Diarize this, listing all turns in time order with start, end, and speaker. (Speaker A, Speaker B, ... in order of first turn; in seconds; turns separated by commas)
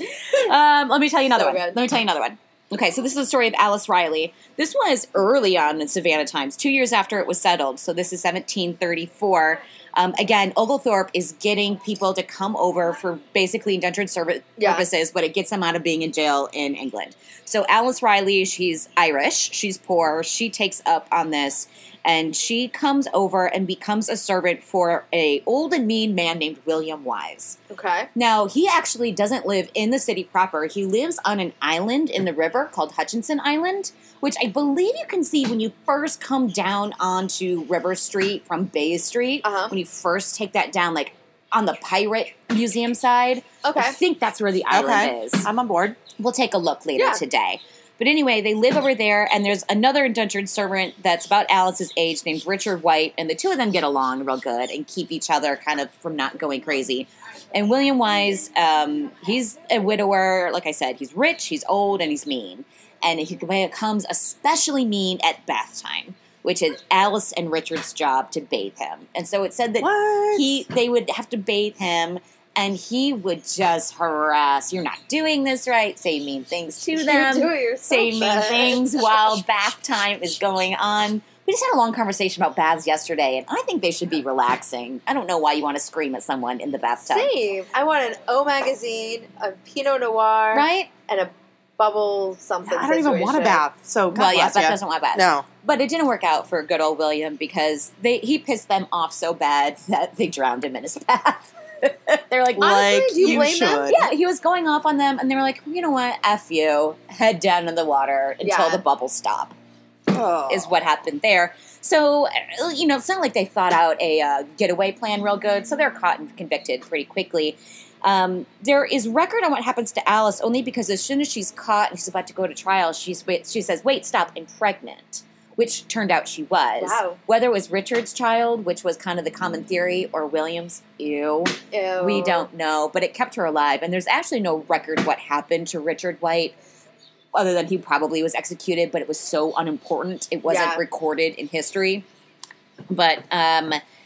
Speaker A: 0.2-27.6, Speaker B: 1.3-1.8, Speaker B: 14.6-14.8, Speaker B: 27.7-28.1, Speaker A: 28.1-45.5, Speaker B: 39.4-39.7, Speaker B: 43.6-44.0, Speaker C: 44.7-46.0, Speaker A: 46.2-87.3, Speaker B: 47.0-47.2, Speaker C: 69.8-70.7, Speaker B: 77.0-79.0, Speaker B: 87.1-93.6, Speaker A: 90.5-90.9, Speaker C: 92.7-95.5, Speaker A: 94.1-109.6, Speaker C: 102.6-104.1, Speaker B: 102.6-103.9, Speaker B: 108.4-108.8, Speaker C: 110.1-110.8, Speaker A: 110.5-136.6, Speaker B: 126.8-127.2, Speaker B: 131.7-132.5, Speaker A: 137.3-142.1, Speaker B: 140.5-140.8, Speaker A: 142.9-143.8